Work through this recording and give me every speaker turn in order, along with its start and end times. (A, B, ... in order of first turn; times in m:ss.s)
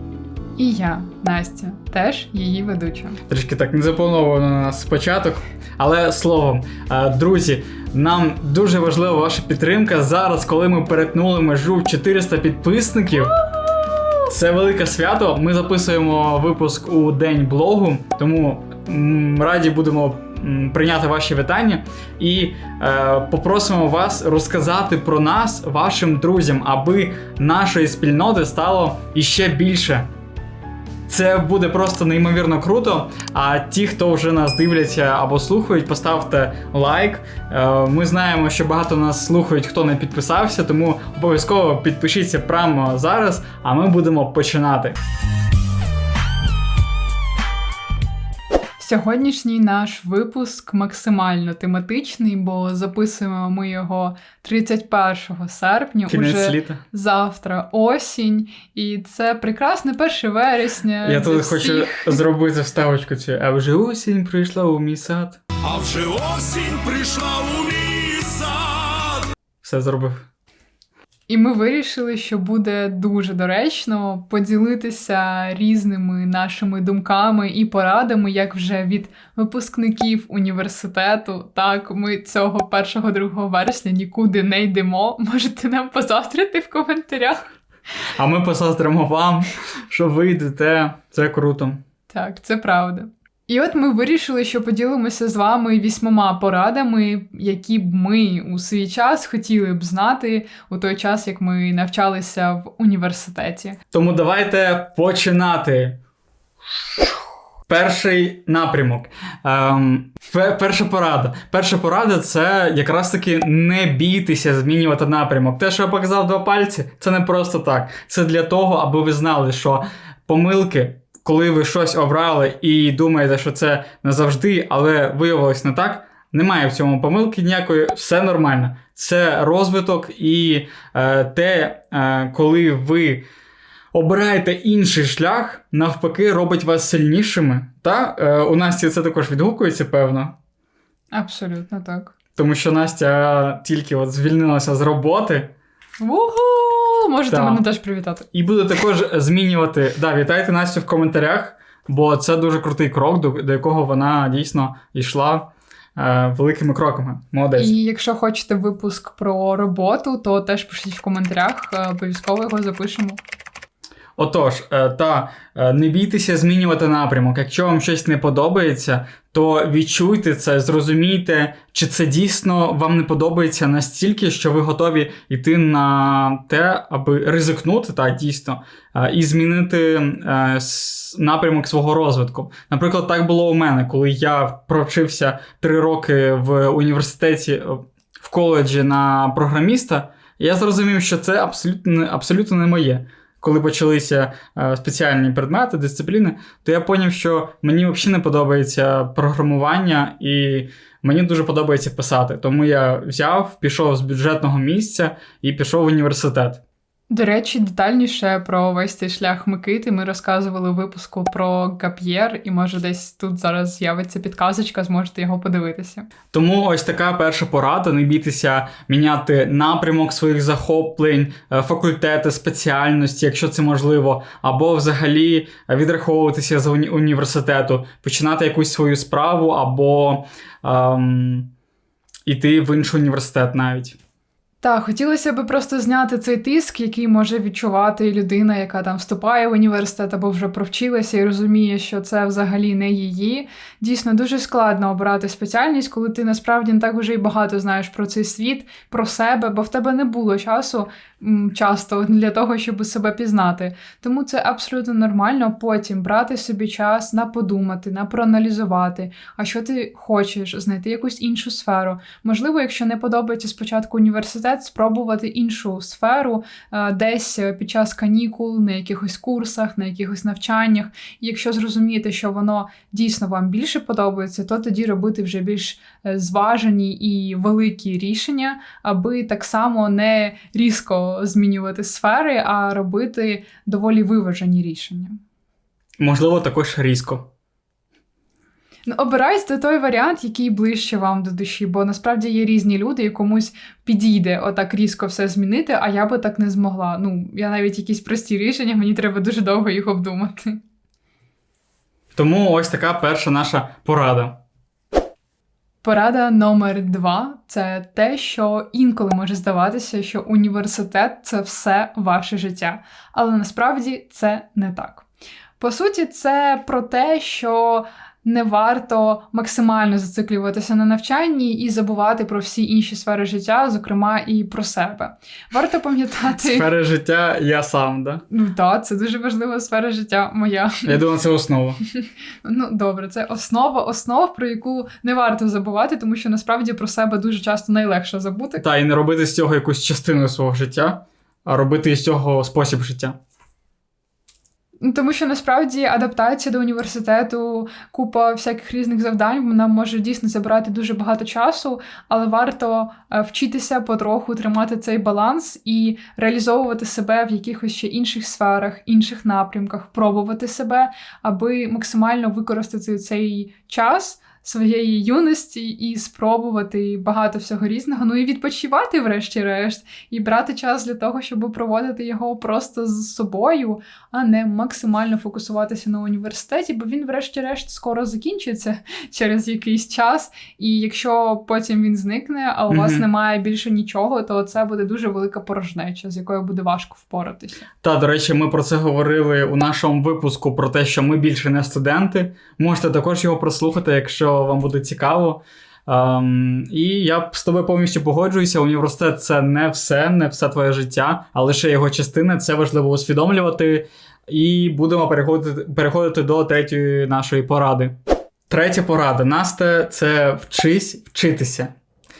0:00.6-0:03.2 A
0:03.3-0:13.3 B
0:14.3-0:30.1 B
0:31.1-0:45.0 B
0:48.8-1:02.2 A
0:56.1-0:56.8 B
1:01.0-1:05.4 B
1:05.6-1:09.2 C
1:09.6-1:10.2 B
1:11.3-1:27.5 A
1:28.1-1:31.8 B
1:32.1-1:43.8 A
1:43.9-1:46.0 B
1:47.7-2:13.2 B
2:13.9-2:20.3 B
2:21.1-2:22.1 A
2:22.4-2:25.5 B
2:26.0-2:28.3 A
2:27.3-2:27.6 B
2:28.3-2:37.7 B
2:37.6-2:43.2 A
2:44.2-3:26.6 B
3:27.1-3:36.1 A
3:36.3-3:51.5 B
3:52.2-3:54.0 B
3:54.6-4:45.2 A
4:46.0-4:47.3 B
4:48.9-5:00.6 A
5:02.1-5:04.4 B
5:05.8-5:15.0 A
5:15.6-5:26.6 A
5:26.4-5:28.2 B
5:28.3-5:31.0 A
5:30.8-5:31.8 B
5:32.4-5:38.6 A
5:38.6-5:43.2 B
5:44.8-6:27.7 A
6:22.7-6:23.0 B
6:27.8-6:47.9 B
6:48.5-6:51.7 B